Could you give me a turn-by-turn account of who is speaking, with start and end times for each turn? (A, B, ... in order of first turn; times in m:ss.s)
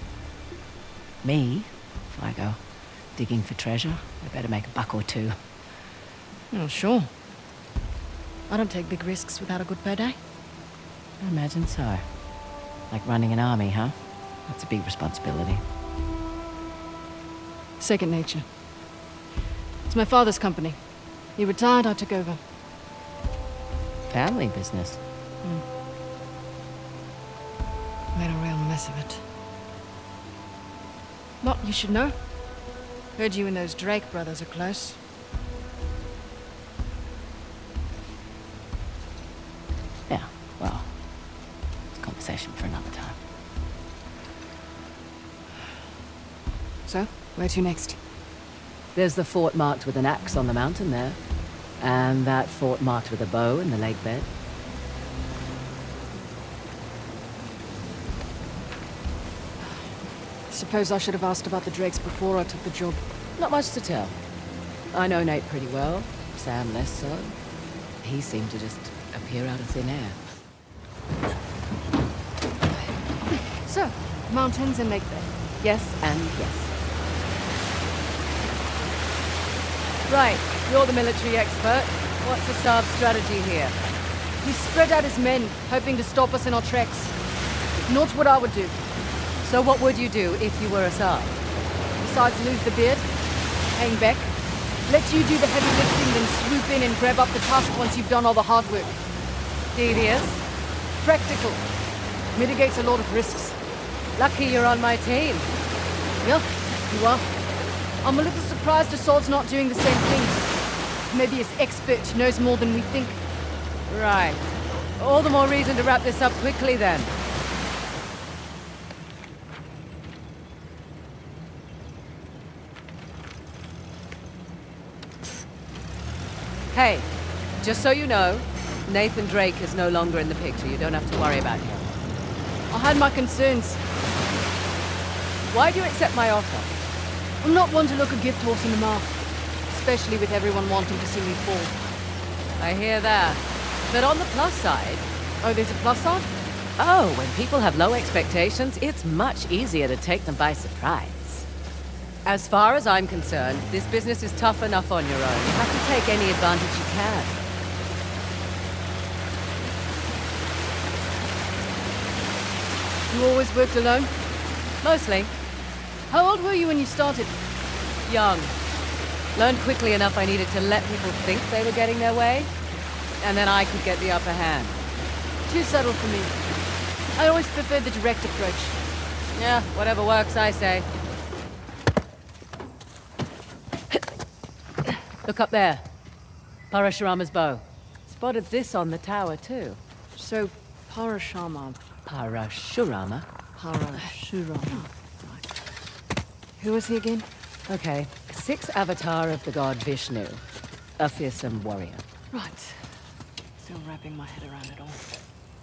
0:01.2-0:05.4 A
0:06.5-0:07.1 B
0:08.5-0:10.2 B
0:11.2-0:12.0 A
0:12.9-0:15.6 A
0:17.8-0:18.5 B
0:19.9-0:20.8 B
0:21.3-0:22.4 B
0:24.1-0:25.0 A
0:28.1-0:29.2 B
0:31.4-0:32.2 B
0:33.2-0:35.0 B
0:40.1-0:41.0 A
0:41.9-0:43.2 A
0:46.8-0:48.0 B
0:48.9-0:51.2 A
0:51.8-0:54.3 A
0:59.6-0:59.9 B
1:00.5-1:03.0 B
1:03.4-1:04.2 A
1:04.9-1:07.3 A
1:08.0-1:10.2 A
1:13.5-1:15.3 B
1:15.6-1:16.7 A
1:20.1-1:23.8 A
1:24.4-1:27.2 B
1:27.8-1:28.8 B
1:29.4-1:31.4 A
1:32.0-1:33.1 B
1:33.7-1:39.0 B
1:39.7-1:40.4 A
1:41.0-1:41.6 B
1:42.3-1:43.6 B
1:44.2-1:45.5 A
1:46.2-1:47.3 B
1:48.0-1:50.5 B
1:51.1-1:53.2 B
1:53.9-1:57.1 A
2:06.7-2:11.9 A
2:12.7-2:13.9 B
2:15.4-2:16.7 A
2:17.4-2:21.8 B
2:22.6-2:25.0 A
2:25.4-2:26.3 B
2:26.8-2:31.5 A
2:32.2-2:37.4 A
2:43.1-2:44.1 B
2:44.8-2:45.3 A
2:46.1-2:47.4 B
2:48.0-2:48.6 A
2:49.3-2:52.5 A
2:53.2-2:54.8 A
2:55.4-2:56.4 B
2:57.1-2:58.8 B
2:59.3-3:00.9 A
3:05.2-3:05.8 A
3:06.7-3:09.8 A
3:10.2-3:11.8 B
3:12.0-3:13.3 A
3:13.6-3:15.4 B
3:16.6-3:17.3 B
3:17.7-3:20.4 A
3:21.0-3:22.0 A
3:22.3-3:23.0 B
3:23.6-3:25.1 B